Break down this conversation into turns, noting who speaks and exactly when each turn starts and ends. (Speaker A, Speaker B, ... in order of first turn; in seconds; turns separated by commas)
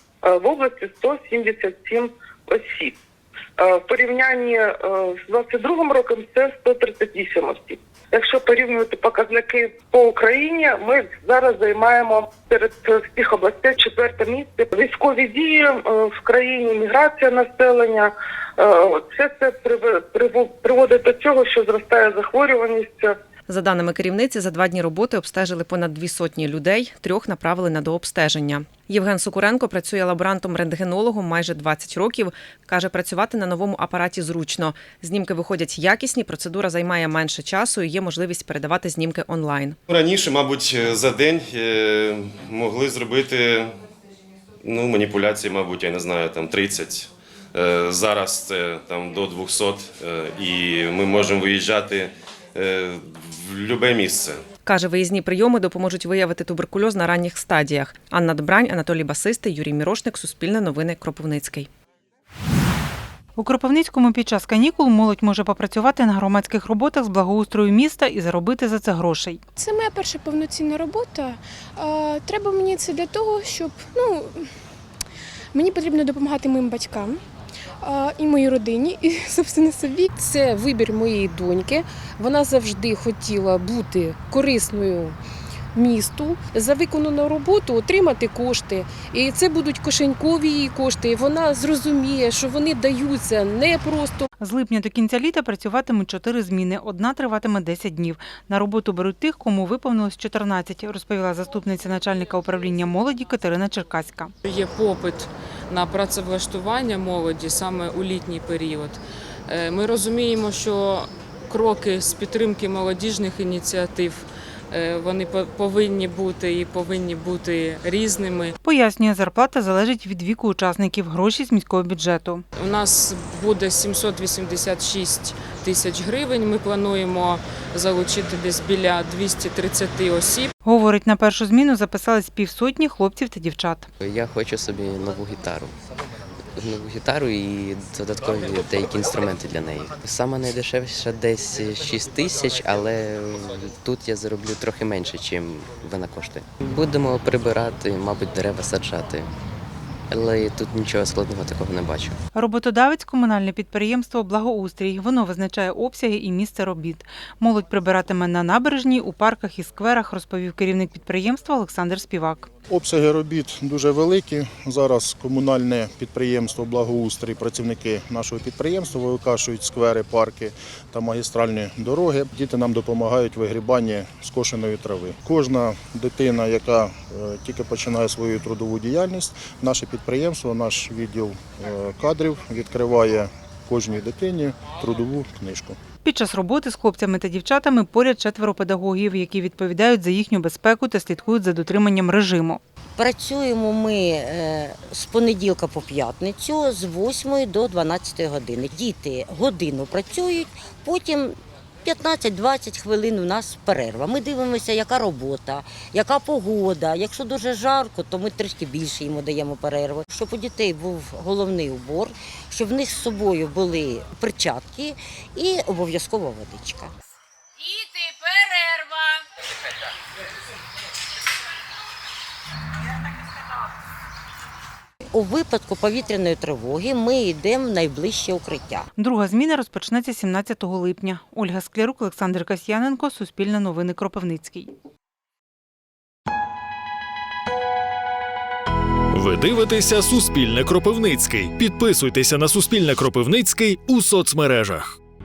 Speaker A: 0.2-2.9, Speaker A: 3.6-23.2, Speaker B: 23.5-39.8, Speaker C: 39.9-43.7, Speaker C: 44.6-54.4, Speaker B: 54.6-61.7, Speaker D: 63.4-69.4, Speaker E: 69.6-74.5, Speaker E: 75.5-77.2, Speaker E: 77.8-80.3, Speaker F: 80.3-85.2, Speaker F: 85.7-94.3, Speaker D: 94.4-104.3, Speaker G: 104.4-118.5, Speaker D: 118.6-122.4, Speaker G: 122.5-130.5, Speaker D: 130.6-133.9, Speaker H: 134.0-135.7, Speaker H: 136.6-149.3, Speaker H: 150.1-152.2, Speaker D: 152.3-162.5, Speaker I: 162.7-185.8, Speaker D: 186.0-192.6, Speaker J: 193.0-216.9, Speaker J: 225.1-228.9, Speaker D: 228.9-234.7, Speaker K: 239.1-244.9